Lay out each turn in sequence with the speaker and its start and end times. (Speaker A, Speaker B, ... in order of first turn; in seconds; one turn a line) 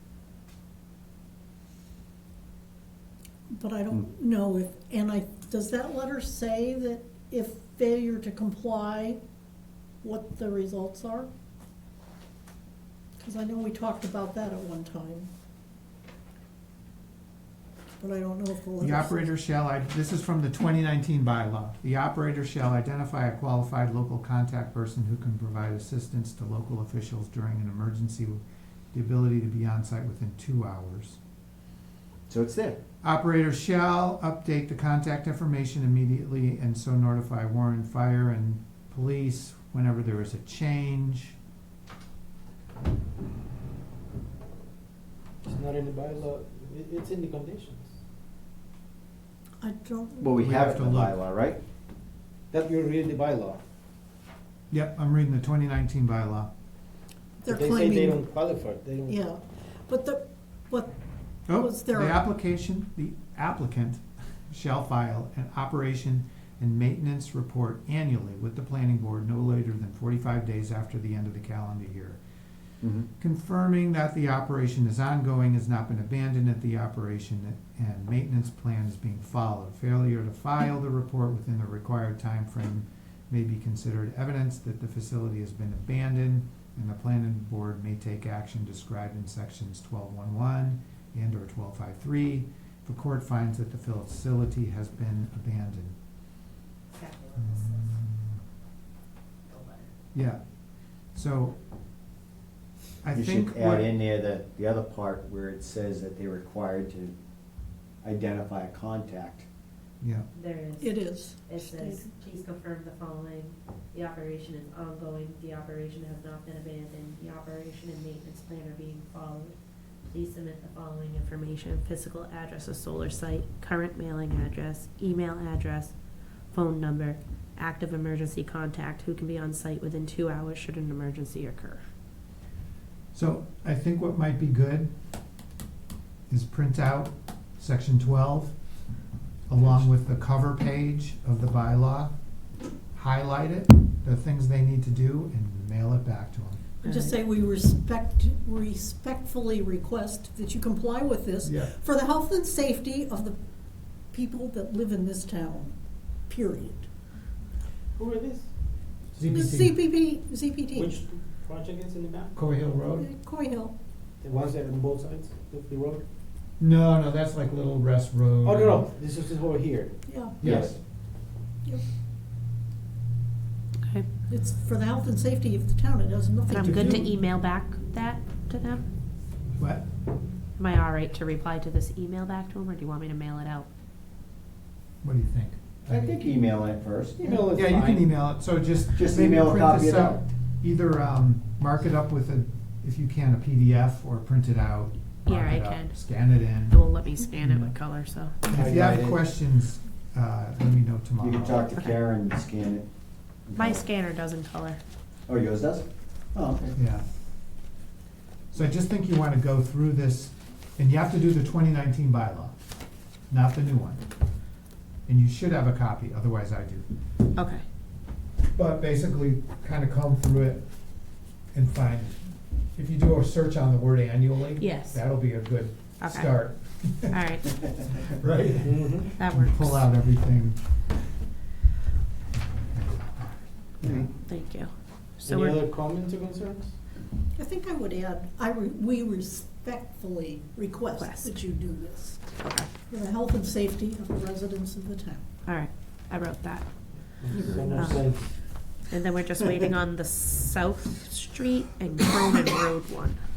Speaker A: 3.5-9.2
Speaker A: 10.0-11.3
Speaker A: 13.2-15.3
Speaker A: 18.0-19.3
Speaker B: 18.8-28.4
Speaker B: 28.9-31.2
Speaker C: 32.3-32.8
Speaker B: 33.0-41.4
Speaker D: 45.4-47.9
Speaker A: 49.6-50.5
Speaker C: 50.2-51.6
Speaker B: 50.4-51.2
Speaker D: 52.5-53.6
Speaker B: 54.7-56.5
Speaker A: 57.4-58.2
Speaker D: 57.5-59.2
Speaker A: 59.1-60.9
Speaker B: 61.5-72.2
Speaker A: 61.5-62.2
Speaker C: 72.8-73.1
Speaker B: 73.2-96.0
Speaker E: 96.9-97.9
Speaker B: 97.4-98.4
Speaker E: 99.5-99.9
Speaker B: 100.1-100.4
Speaker B: 101.1-101.5
Speaker B: 103.0-103.9
Speaker C: 103.1-107.1
Speaker C: 108.0-109.5
Speaker B: 110.0-110.3
Speaker E: 110.3-125.9
Speaker A: 110.8-112.1
Speaker E: 126.5-131.8
Speaker B: 133.1-134.9
Speaker B: 136.3-138.6
Speaker B: 139.5-142.1
Speaker B: 142.9-146.7
Speaker E: 146.8-147.1
Speaker A: 146.8-153.4
Speaker B: 151.4-151.7
Speaker A: 154.1-156.9
Speaker D: 157.9-158.5
Speaker B: 159.1-159.8
Speaker A: 159.2-160.9
Speaker D: 160.7-162.4
Speaker B: 162.3-163.1
Speaker A: 162.9-163.7
Speaker D: 164.2-166.0
Speaker B: 166.6-168.9
Speaker D: 168.4-170.7
Speaker A: 170.1-170.4
Speaker B: 170.4-170.8
Speaker C: 170.4-170.7
Speaker E: 173.8-174.1
Speaker A: 174.3-177.0
Speaker E: 176.5-178.8
Speaker B: 176.6-177.1
Speaker B: 179.6-179.8
Speaker E: 180.6-183.7
Speaker B: 185.0-186.2
Speaker C: 185.9-187.4
Speaker D: 187.2-188.2
Speaker B: 187.5-197.8
Speaker C: 188.9-190.2
Speaker E: 195.2-198.5
Speaker B: 198.5-201.7
Speaker D: 198.5-199.4
Speaker C: 201.2-202.9
Speaker C: 203.4-203.8
Speaker E: 203.6-204.8
Speaker C: 205.3-206.8
Speaker B: 206.7-207.0
Speaker B: 208.5-212.5
Speaker B: 213.3-214.0
Speaker B: 215.1-216.8
Speaker E: 217.3-217.6
Speaker B: 218.5-220.7
Speaker B: 221.5-222.2
Speaker B: 222.7-227.2
Speaker E: 224.6-225.0
Speaker E: 226.0-226.3
Speaker E: 227.0-227.7
Speaker B: 227.8-230.6
Speaker D: 228.6-229.1
Speaker E: 229.1-229.9
Speaker B: 232.3-234.1
Speaker E: 234.2-234.7
Speaker E: 235.2-235.6
Speaker D: 235.2-236.7
Speaker A: 237.3-242.3
Speaker E: 241.0-241.3
Speaker E: 242.4-242.7
Speaker A: 242.9-245.2
Speaker E: 245.4-246.7
Speaker D: 247.2-248.3
Speaker C: 247.3-247.8
Speaker E: 247.7-248.1
Speaker E: 248.8-253.2